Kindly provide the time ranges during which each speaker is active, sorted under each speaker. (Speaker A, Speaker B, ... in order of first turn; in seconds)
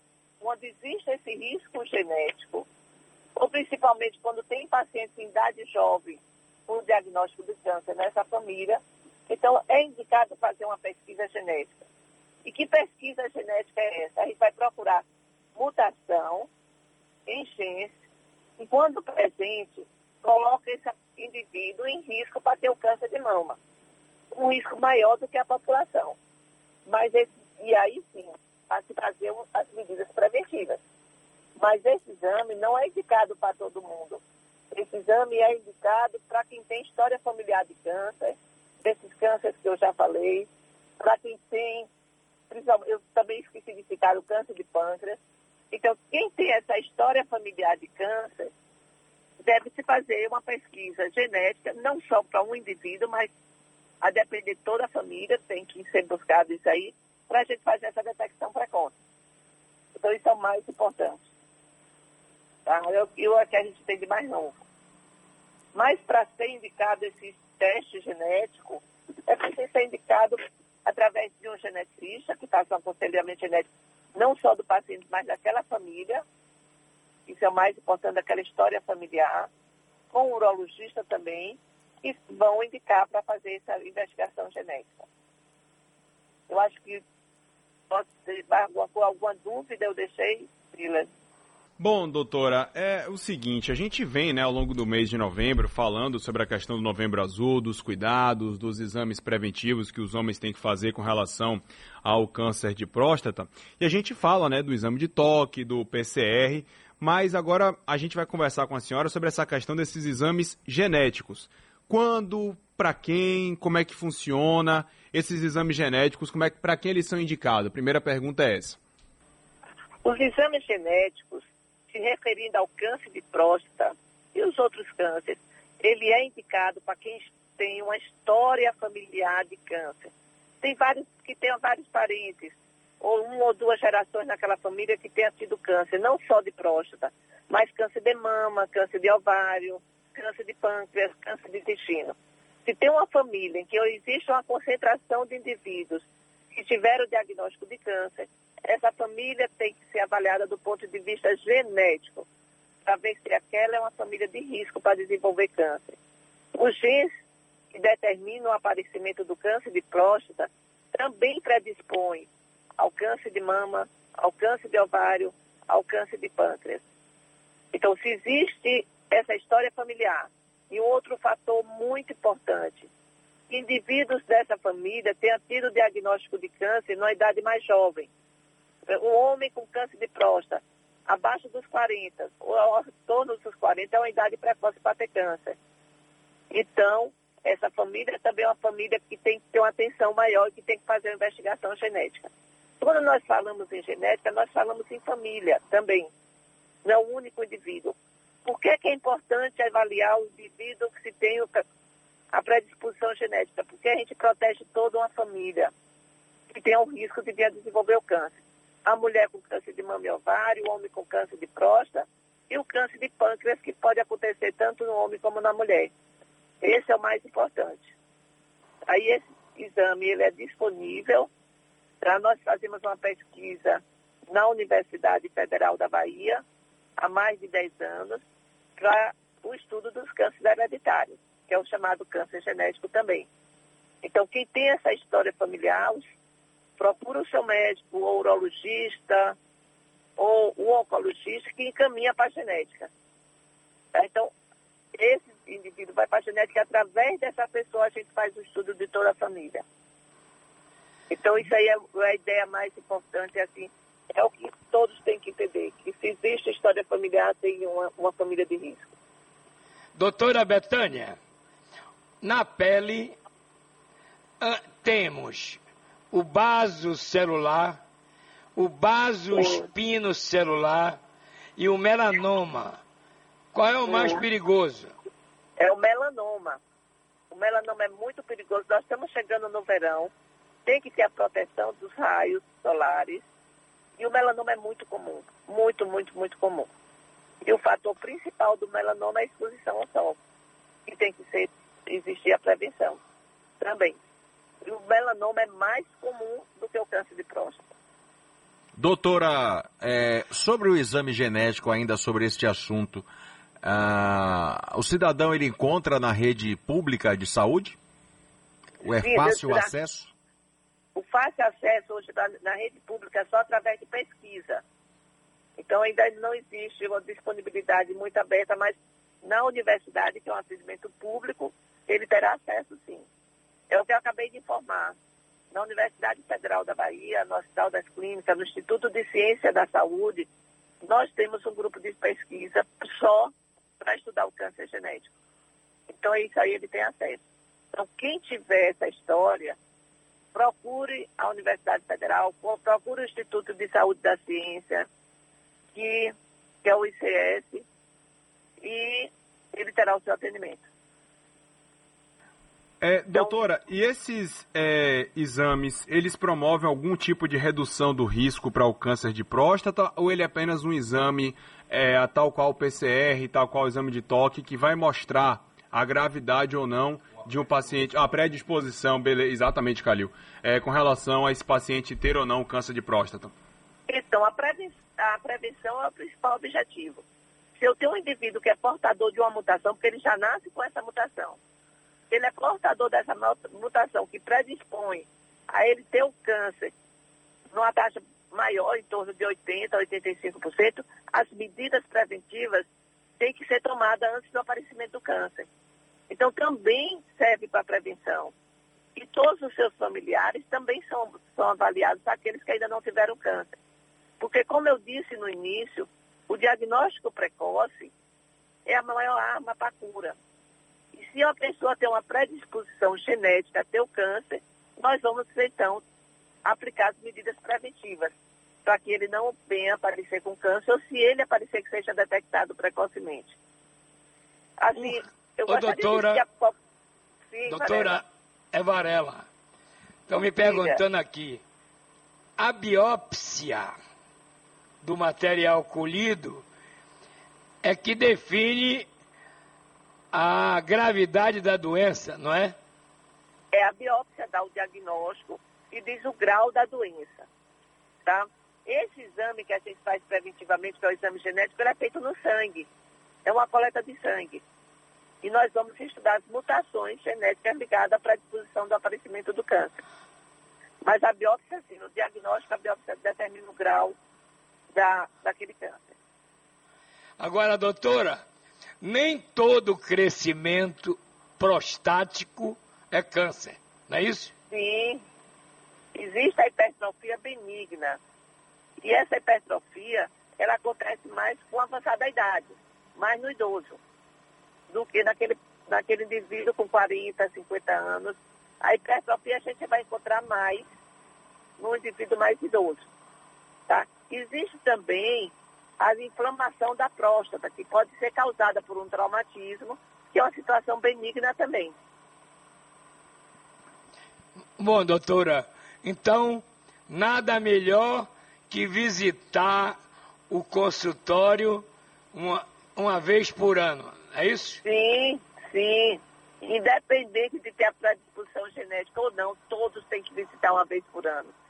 Speaker A: 0.4-2.7, 3.4-11.8, 12.4-15.0, 15.6-16.5, 17.3-17.9, 18.6-23.6, 24.3-26.2, 26.9-30.8, 31.6-40.5, 41.0-41.9, 42.5-45.2, 45.7-48.5, 49.4-53.3, 54.0-58.9, 60.0-61.3, 62.7-64.6, 65.7-76.2, 77.3-79.5, 80.1-85.1, 86.5-87.0, 87.9-91.1, 120.0-152.3, 152.8-156.0, 156.6-157.1, 157.7-166.8, 167.7-172.9, 173.5-178.1, 178.9-185.6, 186.5-196.1, 196.8-201.6, 202.3-205.7, 206.5-215.9, 216.6-217.9, 218.9-221.3, 222.0-226.4, 227.0-228.2, 228.8-233.3, 234.0-236.0, 236.8-239.4, 240.2-242.9, 243.9-244.3, 245.0-249.6, 251.1-258.9, 269.3-269.6, 273.9-274.2, 275.6-276.6, 277.3-280.1, 280.6-283.3, 284.0-286.7, 287.4-290.2, 290.9-293.0, 293.6-294.0, 294.6-297.6, 309.0-309.7, 310.9-314.6, 315.6-323.1, 323.7-325.0, 325.5-330.3, 330.8-335.1, 335.9-337.2, 337.7-339.6, 340.3-344.9, 345.7-346.1, 346.6-347.7, 348.6-350.6, 353.1-353.4, 373.9-377.0, 377.6-381.4, 382.1-386.7, 387.5-392.7, 393.2-395.5, 396.1-398.3, 399.0-403.5, 404.2-407.9, 408.7-410.1, 410.9-415.8, 416.4-418.1, 418.6-423.4, 424.6-426.6, 427.3-428.0, 430.4-430.8, 443.5-447.3, 448.1-452.7, 453.2-454.4, 455.2-459.8, 460.8-464.0, 464.7-465.9, 474.5-475.0, 475.9-478.0, 478.8-483.8, 484.7-490.7, 491.6-492.9, 493.7-501.8, 514.6-521.3
Speaker B: 91.8-118.8, 352.8-373.3
Speaker C: 259.9-261.2, 262.2-263.2, 264.4-267.8, 268.6-271.0, 271.6-272.8, 273.5-274.9, 424.8-426.2, 427.5-429.3, 430.1-431.4, 432.4-433.7, 434.8-436.4, 437.6-438.9, 440.1-442.6, 467.2-468.2, 468.8-474.3, 504.6-509.8, 510.3-514.6
Speaker D: 298.8-303.1, 303.6-307.8, 308.8-310.1